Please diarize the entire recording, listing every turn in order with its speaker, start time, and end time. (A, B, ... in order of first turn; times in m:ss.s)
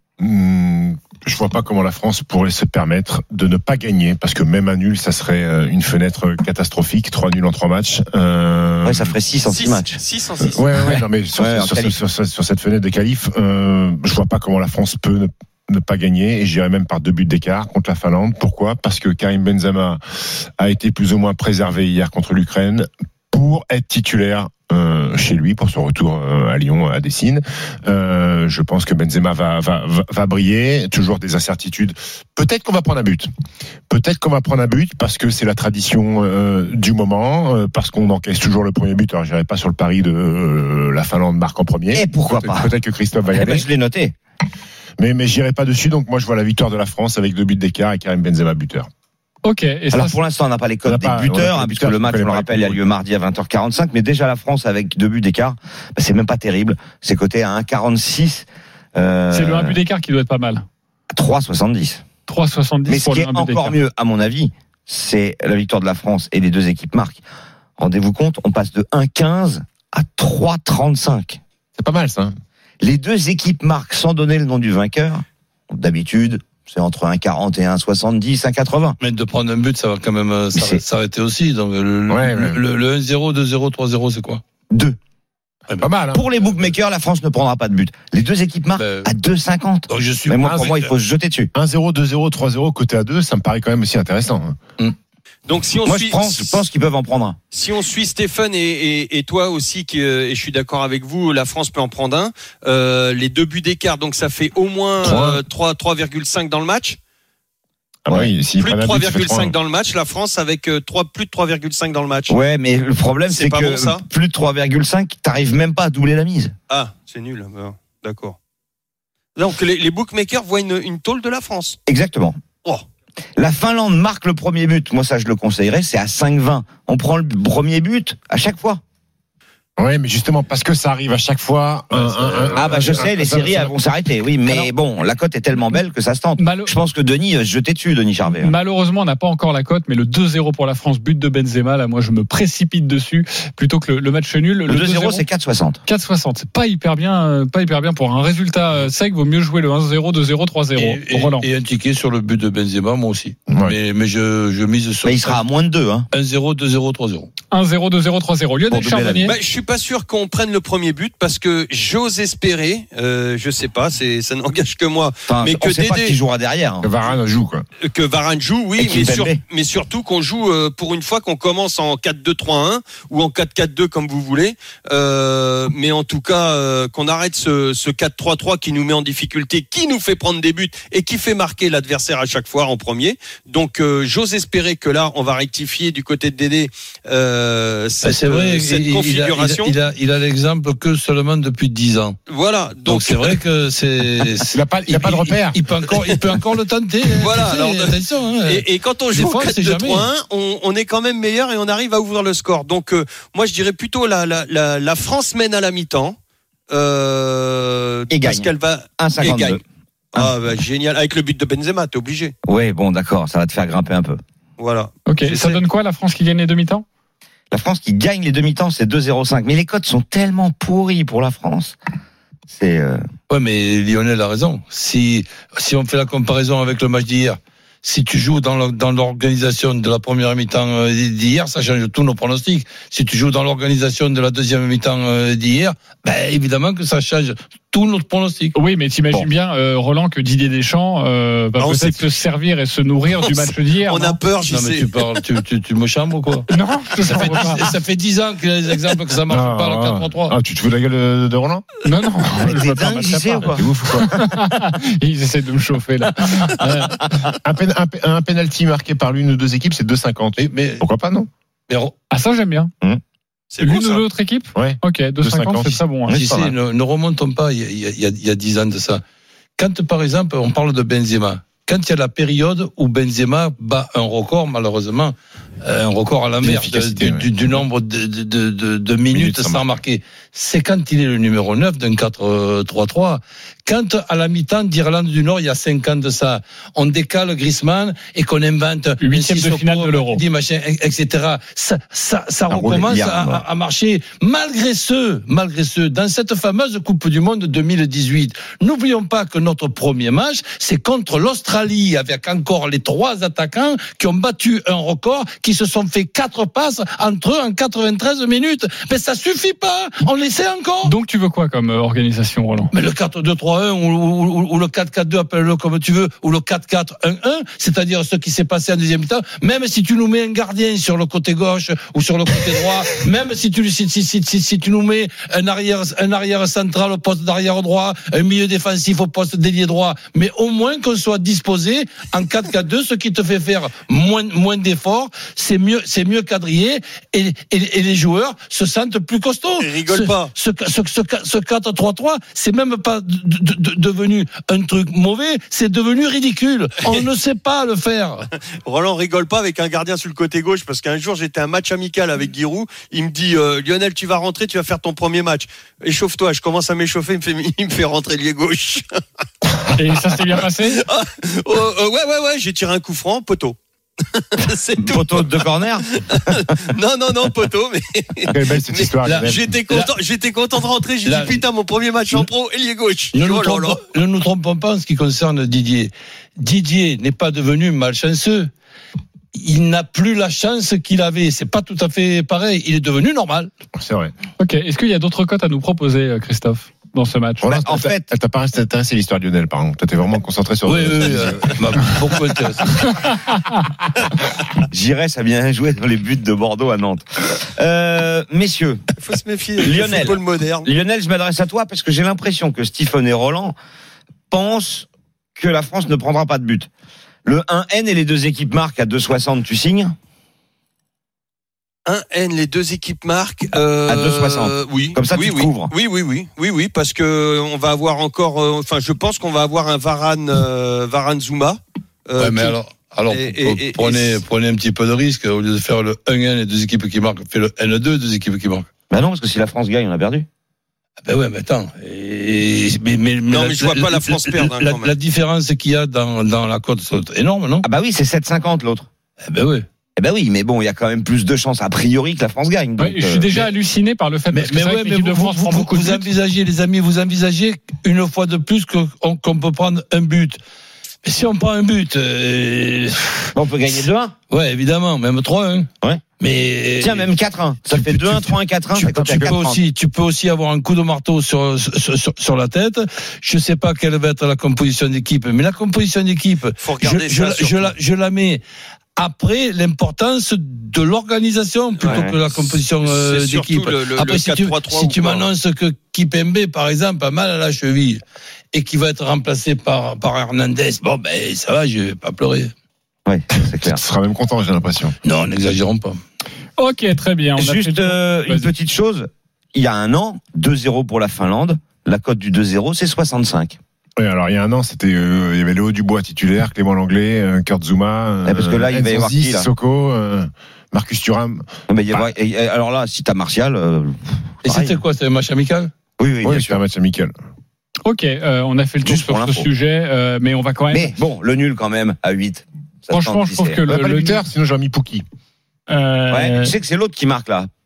0:00.2-0:09.1 A
0:08.8-0:10.0 B
0:09.5-0:10.7 C
0:10.4-0:20.0 A
0:11.4-0:12.0 B
0:20.6-0:33.3 A
0:33.9-0:43.7 A
0:41.9-0:42.7 B
0:43.3-0:44.1 B
0:45.0-0:48.9 A
0:49.4-0:50.2 D
0:49.9-0:59.7 B
0:50.9-0:52.8 A
0:59.3-1:00.6 D
1:01.1-1:02.0 B
1:02.3-1:03.8 D
1:02.9-1:07.2 B
1:07.8-1:11.4 B
1:11.8-1:12.3 A
1:12.8-1:19.0 B
1:19.0-1:24.4 E
1:20.6-1:20.8 B
1:22.1-1:22.6 A
1:24.7-1:25.0 B
1:25.8-1:26.2 A
1:26.1-1:31.5 B
1:28.8-1:29.1 E
1:29.9-1:30.9 E
1:30.4-1:30.7 A
1:31.5-1:34.6 A
1:35.5-1:36.6 C
1:35.9-1:37.4 B
1:37.5-1:47.0 C
1:45.0-1:45.4 A
1:48.0-1:49.6 A
1:48.6-1:52.4 C
1:52.3-1:56.5 B
1:53.3-1:54.0 C
1:56.7-1:58.4 C
1:59.4-2:01.8 C
2:01.9-2:02.4 B
2:03.4-2:08.8 B
2:09.8-2:13.8 A
2:12.2-2:18.5 B
2:16.4-2:16.7 D
2:18.3-2:25.2 D
2:24.7-2:25.8 B
2:25.9-2:31.5 D
2:30.8-2:35.4 E
2:33.5-2:33.8 A
2:35.0-2:36.1 B
2:36.1-2:37.3 E
2:37.5-2:39.4 D
2:38.7-2:39.3 B
2:39.2-2:46.2 C
2:45.3-2:46.9 B
2:46.8-2:47.6 A
2:47.8-3:09.7 C
2:48.8-2:49.4 B
3:08.0-3:12.2 E
3:12.3-3:13.4 C
3:12.8-3:20.1 E
3:14.5-3:15.6 A
3:17.2-3:26.2 C
3:26.7-3:29.6 C
3:28.1-3:29.6 B
3:30.1-3:32.3 C
3:32.5-3:34.2 B
3:34.6-3:35.6 C
3:35.1-3:36.8 D
3:37.5-3:41.8 B
3:42.5-3:43.0 B
3:43.3-3:58.6 E
3:58.5-4:04.2 D
4:01.6-4:02.0 C
4:03.3-4:04.9 C
4:04.5-4:06.5 E
4:06.5-4:07.6 D
4:07.0-4:10.3 E
4:09.3-4:11.7 A
4:11.8-4:17.1 D
4:12.4-4:13.7 B
4:13.6-4:14.5 A
4:17.4-4:21.3 A
4:20.4-4:20.8 E
4:21.7-4:21.9 E
4:22.1-4:22.7 D
4:23.5-4:24.0 C
4:23.6-4:26.2 D
4:24.6-4:26.5 A
4:26.1-4:29.0 E
4:29.6-5:10.9 E
4:36.4-4:37.6 A
4:39.1-4:39.8 A
4:49.0-4:50.2 D
4:52.5-4:53.4 B
5:10.8-5:12.7 D
5:12.7-5:48.3 E
5:39.6-5:40.3 C
5:48.6-5:58.8 C
5:59.8-6:00.8 D
6:00.8-6:03.6 C
6:04.1-6:13.8 C
6:04.8-6:06.5 B
6:08.3-6:09.5 A
6:09.0-6:09.9 E
6:11.0-6:11.4 E
6:13.1-6:18.5 E
6:19.3-6:23.5 E
6:23.7-6:24.1 A
6:24.4-6:27.5 D
6:27.4-6:32.1 A
6:27.5-6:28.1 B
6:30.7-6:33.0 E
6:32.9-6:33.5 D
6:34.7-6:38.8 B
6:39.0-6:40.7 C
6:39.6-6:43.6 B
6:44.3-6:46.7 B
6:47.3-6:50.0 B
6:51.9-7:02.6 C
6:53.9-6:55.7 B
7:02.2-7:08.7 E
7:03.1-7:04.2 C
7:08.9-7:10.3 B
7:11.0-7:17.7 E
7:13.3-7:14.9 C
7:17.6-7:18.9 B
7:19.3-7:19.7 E
7:20.0-7:23.4 B
7:22.8-7:26.1 D
7:24.3-7:30.4 E
7:31.0-7:33.3 E
7:33.4-7:34.1 B
7:34.3-7:35.7 E
7:36.2-7:37.1 E
7:36.8-7:39.6 B
7:38.8-7:39.3 A
7:38.9-7:48.4 E
7:46.6-7:47.7 C
7:49.0-7:58.0 E
7:51.8-7:52.2 B
7:52.8-7:55.3 C
7:58.5-8:02.5 E
8:03.1-8:03.8 B
8:03.6-8:05.0 A
8:05.0-8:06.0 E
8:06.6-8:08.5 D
8:07.4-8:13.6 B
8:14.0-8:22.1 A
8:18.3-8:19.5 B
8:21.7-8:24.8 B
8:24.4-8:25.7 E
8:26.0-8:26.6 B
8:26.2-8:27.1 A
8:27.9-8:30.9 D
8:28.8-8:29.5 B
8:30.7-8:33.6 B
8:32.9-8:34.2 D
8:33.7-8:35.0 A
8:35.7-8:36.5 D
8:36.1-8:37.5 B